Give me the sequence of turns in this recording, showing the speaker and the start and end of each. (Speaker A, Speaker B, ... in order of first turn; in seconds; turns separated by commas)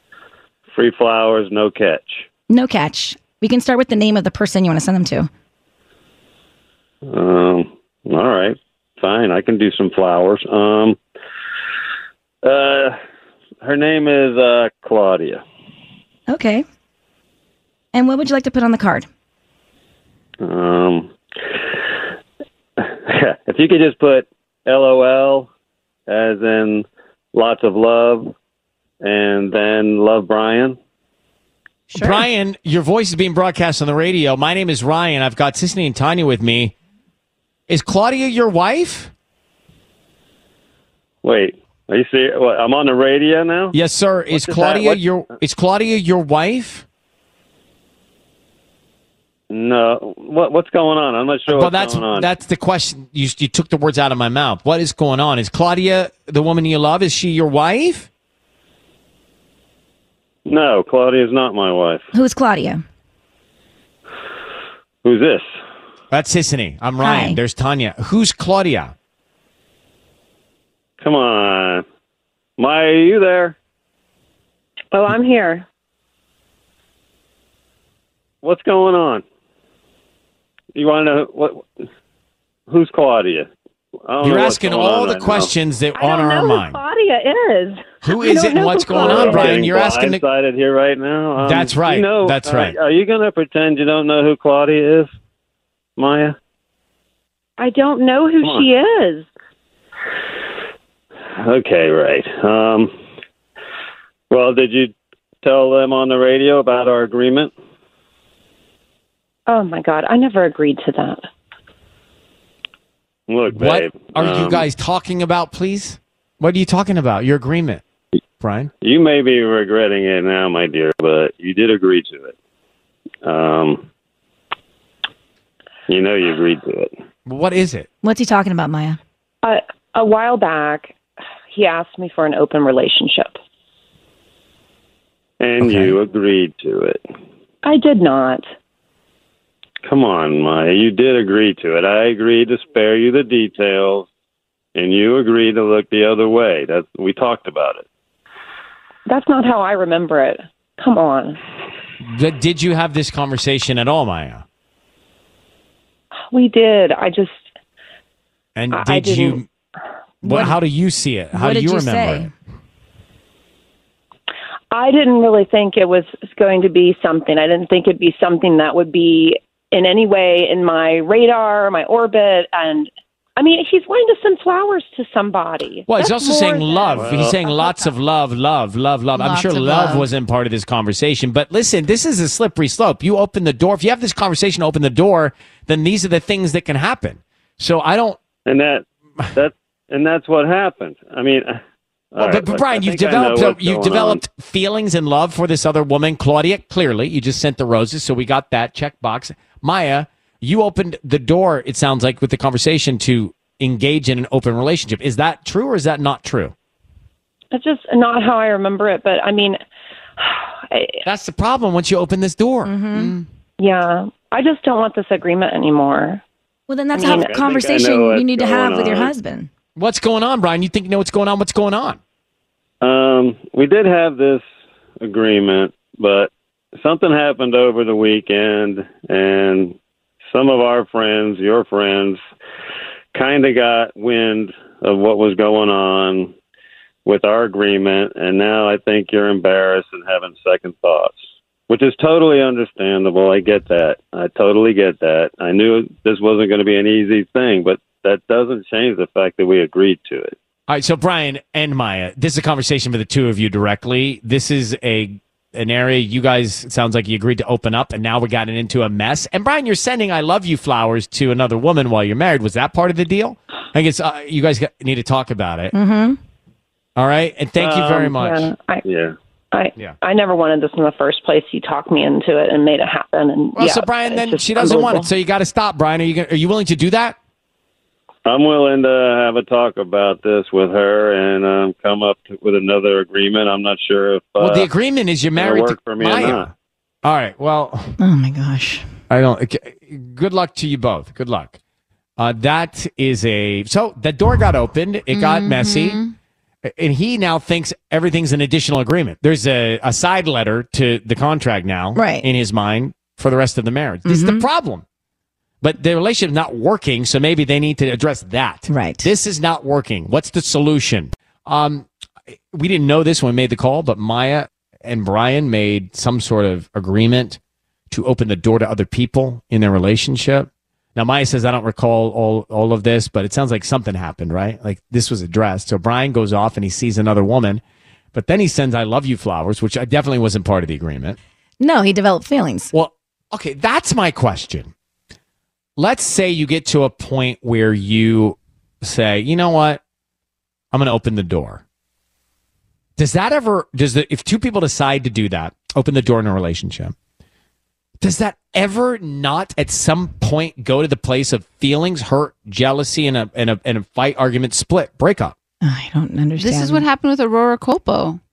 Speaker A: 0.7-2.2, Speaker B: 2.5-5.3, Speaker A: 7.1-11.0, Speaker A: 12.4-13.0, Speaker A: 13.6-15.4, Speaker B: 16.3-16.6, Speaker B: 17.9-19.1, Speaker A: 20.4-21.1, Speaker A: 22.8-25.5, Speaker A: 26.1-28.3, Speaker A: 29.0-30.8, Speaker C: 31.9-36.7, Speaker C: 37.7-39.1, Speaker A: 41.2-43.8, Speaker C: 43.7-46.8, Speaker A: 44.3-45.0, Speaker A: 49.5-52.3, Speaker C: 51.5-58.1, Speaker A: 60.5-62.1, Speaker B: 62.1-62.8, Speaker A: 65.0-65.5, Speaker C: 66.1-68.9, Speaker B: 67.0-67.4, Speaker A: 71.0-71.8, Speaker A: 72.6-73.6, Speaker D: 74.9-75.7, Speaker A: 78.4-79.2, Speaker A: 80.8-81.7, Speaker A: 82.7-83.5, Speaker A: 84.1-85.5, Speaker C: 84.2-86.8, Speaker D: 86.0-89.6, Speaker C: 88.0-90.2, Speaker A: 89.0-95.1, Speaker C: 91.4-92.8, Speaker A: 96.0-96.3, Speaker D: 97.6-99.3, Speaker A: 101.4-102.9, Speaker A: 104.3-107.5, Speaker D: 109.5-111.2, Speaker A: 113.3-114.7, Speaker C: 113.5-117.8, Speaker C: 118.4-118.7, Speaker A: 118.8-122.3, Speaker A: 123.2-123.9, Speaker A: 125.9-126.9, Speaker C: 127.3-127.9, Speaker B: 128.0-129.0, Speaker D: 129.4-130.9, Speaker D: 131.5-133.4, Speaker A: 135.4-137.0, Speaker C: 135.6-136.0, Speaker D: 137.6-138.4, Speaker A: 139.8-144.1, Speaker A: 144.8-147.8, Speaker D: 149.1-151.4, Speaker C: 152.0-154.4, Speaker D: 156.3-157.4, Speaker C: 158.6-159.5, Speaker D: 158.7-159.4, Speaker C: 160.2-162.3, Speaker B: 160.2-160.6, Speaker B: 161.3-162.3, Speaker D: 164.7-176.9, Speaker C: 175.9-188.2, Speaker A: 176.9-177.4, Speaker E: 179.1-180.1, Speaker A: 188.5-191.6, Speaker A: 192.1-194.2, Speaker C: 192.2-206.5, Speaker D: 207.5-209.6, Speaker D: 210.2-211.0, Speaker C: 211.1-212.7, Speaker B: 212.6-213.1, Speaker E: 212.9-213.3, Speaker D: 213.6-216.2, Speaker B: 216.7-219.5, Speaker D: 217.0-217.3, Speaker A: 217.0-219.1, Speaker C: 219.8-222.0, Speaker A: 222.8-224.4, Speaker A: 225.0-229.8, Speaker A: 230.3-232.2, Speaker A: 233.1-236.3, Speaker A: 237.1-241.1, Speaker A: 241.7-250.4, Speaker C: 250.7-265.8, Speaker B: 265.7-266.2, Speaker C: 267.0-268.5, Speaker A: 267.6-268.1, Speaker D: 268.2-268.8, Speaker A: 268.9-269.1, Speaker D: 269.5-275.1, Speaker C: 273.6-277.1, Speaker A: 278.3-284.7, Speaker C: 284.4-286.5, Speaker A: 285.4-286.5, Speaker C: 287.0-288.0, Speaker B: 288.0-288.9, Speaker C: 289.1-291.6, Speaker C: 292.2-296.0, Speaker E: 295.1-296.1, Speaker C: 296.6-304.8, Speaker B: 301.9-302.3, Speaker B: 304.1-304.4, Speaker C: 305.6-311.9, Speaker B: 308.7-309.1, Speaker C: 312.5-317.4, Speaker C: 317.9-327.6, Speaker C: 328.1-331.2, Speaker B: 331.6-332.7, Speaker C: 332.7-334.7, Speaker C: 335.8-339.8, Speaker C: 340.7-341.6, Speaker C: 343.0-346.9, Speaker C: 348.0-355.4, Speaker B: 355.6-356.9, Speaker E: 356.4-358.2